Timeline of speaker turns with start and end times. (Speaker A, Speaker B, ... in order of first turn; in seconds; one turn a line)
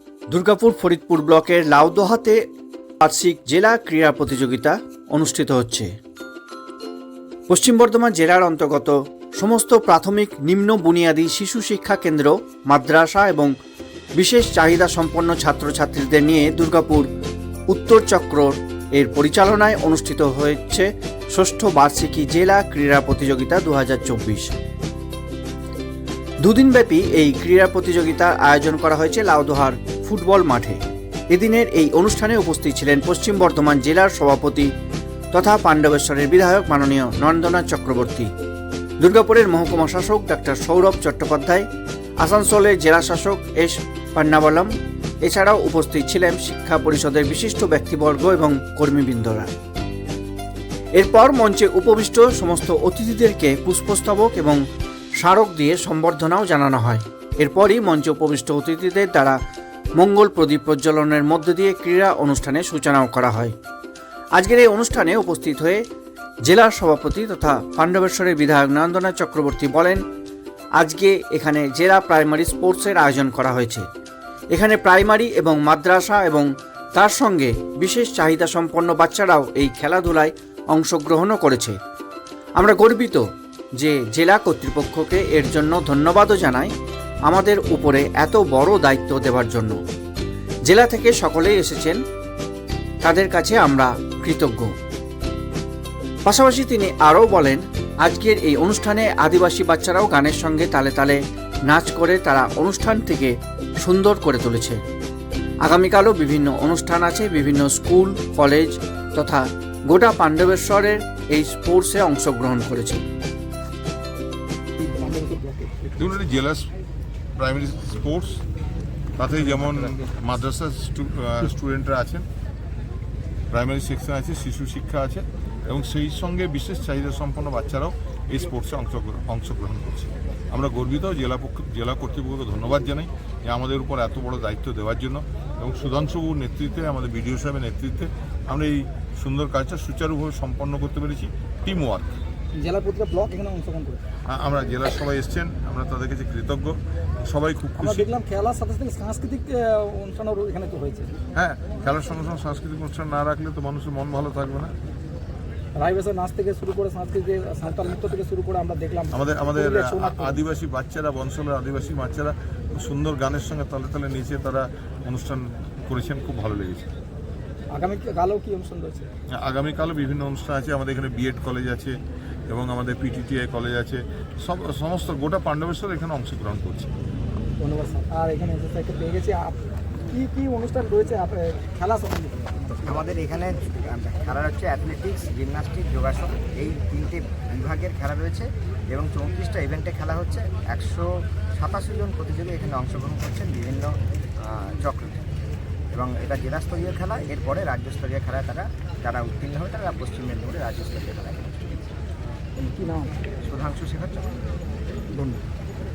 Speaker A: 0.3-2.4
Speaker A: 3.0-5.9
Speaker A: 7.5-13.5
Speaker A: 14.2-17.1
Speaker A: 17.7-24.5
Speaker A: 26.4-34.7
Speaker A: 35.3-38.3
Speaker A: 39.0-41.7
Speaker A: 42.2-49.5
Speaker A: 50.9-54.6
Speaker A: 55.2-59.4
Speaker A: 60.0-63.5
Speaker A: 64.3-65.8
Speaker A: 66.5-70.0
Speaker A: 70.8-73.9
Speaker A: 74.5-81.8
Speaker A: 82.6-83.2
Speaker A: 83.8-86.7
Speaker A: 87.3-89.8
Speaker A: 90.7-92.0
Speaker A: 93.0-94.8
Speaker A: 96.2-104.8
Speaker A: 105.6-113.0
Speaker B: 114.8-116.2
Speaker C: 116.0-116.7
Speaker C: 117.4-118.4
Speaker C: 119.2-122.3
Speaker B: 119.5-119.8
Speaker C: 123.5-142.2
Speaker B: 142.6-144.0
Speaker C: 144.3-148.1
Speaker B: 147.8-151.2
Speaker C: 151.3-154.8
Speaker B: 155.8-160.4
Speaker C: 159.1-166.9
Speaker B: 167.7-169.1
Speaker C: 169.3-172.0
Speaker C: 172.5-176.9
Speaker B: 177.6-182.8
Speaker D: 182.8-195.2
Speaker D: 195.9-201.9
Speaker B: 202.6-203.2
Speaker D: 203.5-204.4
Speaker B: 205.1-205.4